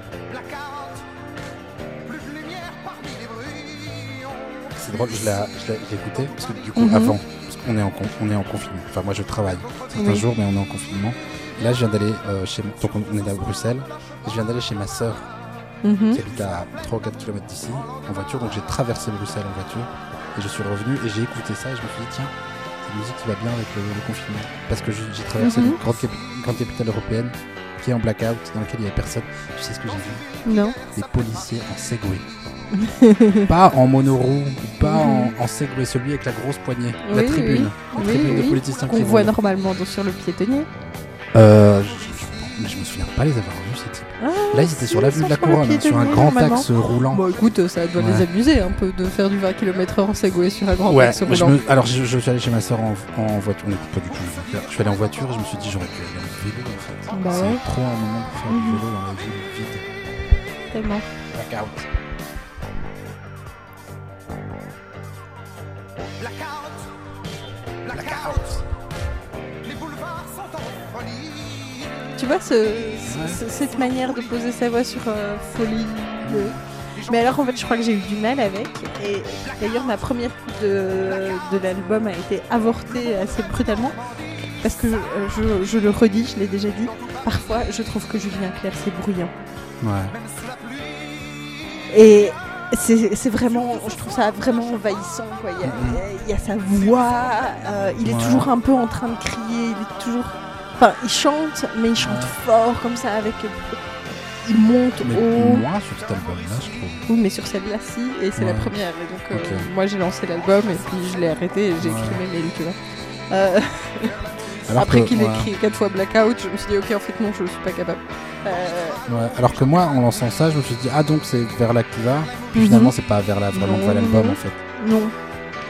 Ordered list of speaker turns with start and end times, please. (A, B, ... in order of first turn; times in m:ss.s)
0:00.3-0:01.0 A
0:02.0-0:05.3 A
0:04.8-0:15.3 B
0:06.8-0:07.2 C
0:10.0-0:10.3 C
0:15.8-0:16.2 C
0:16.1-0:30.2 B
0:25.4-0:25.8 C
0:30.4-0:30.8 C
0:30.9-0:32.3 B
0:32.7-0:33.5 C
0:33.5-0:39.3 B
0:34.8-0:35.4 C
0:37.0-0:40.7 C
0:41.3-0:47.2 B
0:44.2-0:51.6 C
0:48.0-0:48.3 B
0:50.9-0:59.8 B
0:57.1-0:57.6 C
0:58.5-0:58.8 C
1:00.7-1:01.1 C
1:01.3-1:01.9 B
1:06.2-1:07.0 A
1:07.8-1:08.6 A
1:07.9-1:08.6 B
1:09.6-1:12.2 A
1:12.2-1:24.0 C
1:13.1-1:13.4 B
1:16.2-1:16.6 B
1:24.6-1:29.3 C
1:29.8-1:30.2 B
1:30.1-1:31.5 A
1:31.9-1:43.8 C
1:35.6-1:36.0 B
1:38.0-1:38.5 B
1:42.0-1:42.3 B
1:44.4-1:45.7 C
1:45.0-1:47.1 B
1:47.1-1:52.8 C
1:48.4-1:48.8 B
1:49.3-1:49.7 B
1:51.8-1:52.2 B
1:53.3-1:59.0 C
1:54.7-1:55.5 B
1:59.1-2:04.6 B
2:02.5-2:02.9 C
2:03.5-2:05.2 C